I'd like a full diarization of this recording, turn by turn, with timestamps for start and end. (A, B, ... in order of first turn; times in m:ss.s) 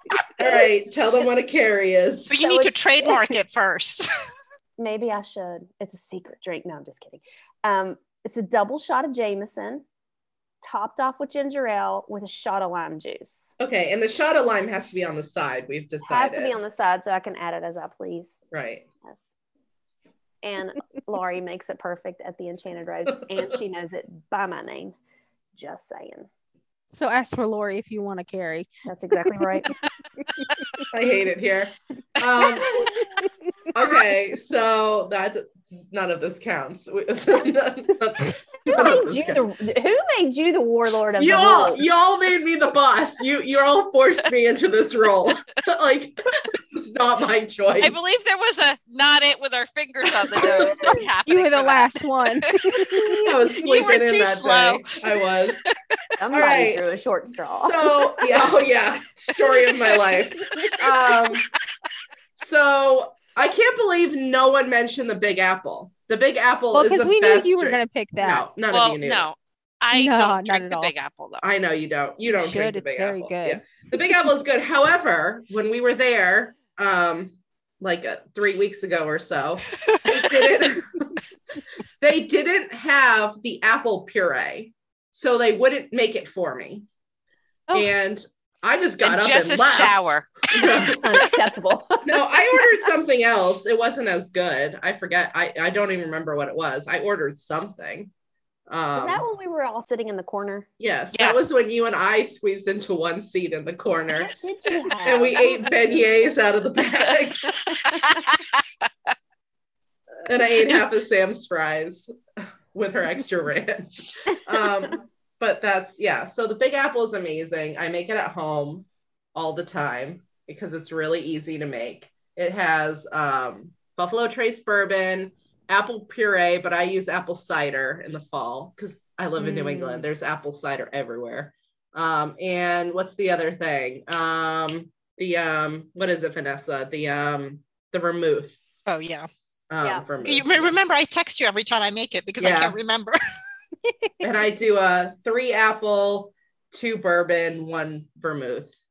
0:00.4-0:02.3 A
0:02.3-0:04.1 B
0:02.4-0:03.3 C
0:04.8-0:09.8 C
0:10.6-0:13.4 C
0:13.6-0:16.6 A
0:16.0-0:18.4 C
0:18.5-0:18.8 A
0:19.0-0:19.3 C
0:20.4-0:24.9 C
0:25.5-0:26.3 C
0:26.9-0:28.7 D
0:28.9-0:29.7 C
0:30.4-0:30.8 D
0:30.9-0:33.0 A
0:32.4-0:33.0 E
0:33.7-0:39.4 A
0:38.6-0:41.8 C
0:41.2-0:47.9 A
0:47.8-0:55.7 E
0:50.2-0:51.0 A
0:51.2-0:53.3 D
0:53.2-0:55.6 A
0:56.2-0:57.8 C
0:56.3-0:56.8 A
0:57.6-1:01.5 A
0:59.4-1:00.2 E
1:02.4-1:09.3 A
1:06.7-1:08.5 D
1:08.7-1:11.5 E
1:09.9-1:10.9 D
1:11.4-1:21.2 A
1:12.3-1:13.6 D
1:22.0-1:26.8 A
1:27.7-1:31.3 A
1:29.0-1:31.0 E
1:30.8-1:32.3 C
1:32.0-1:38.1 A
1:38.7-1:39.2 A
1:38.9-1:40.7 C
1:40.8-1:44.3 A
1:41.1-1:41.4 E
1:44.1-1:46.1 C
1:45.0-1:47.9 A
1:47.8-1:48.6 E
1:50.2-1:52.1 A
1:52.7-2:18.6 A
2:09.4-2:10.1 D
2:18.8-2:19.3 B
2:19.7-2:20.7 A
2:20.2-2:23.2 B
2:22.4-2:22.8 A
2:23.8-2:24.2 D
2:24.2-2:28.7 A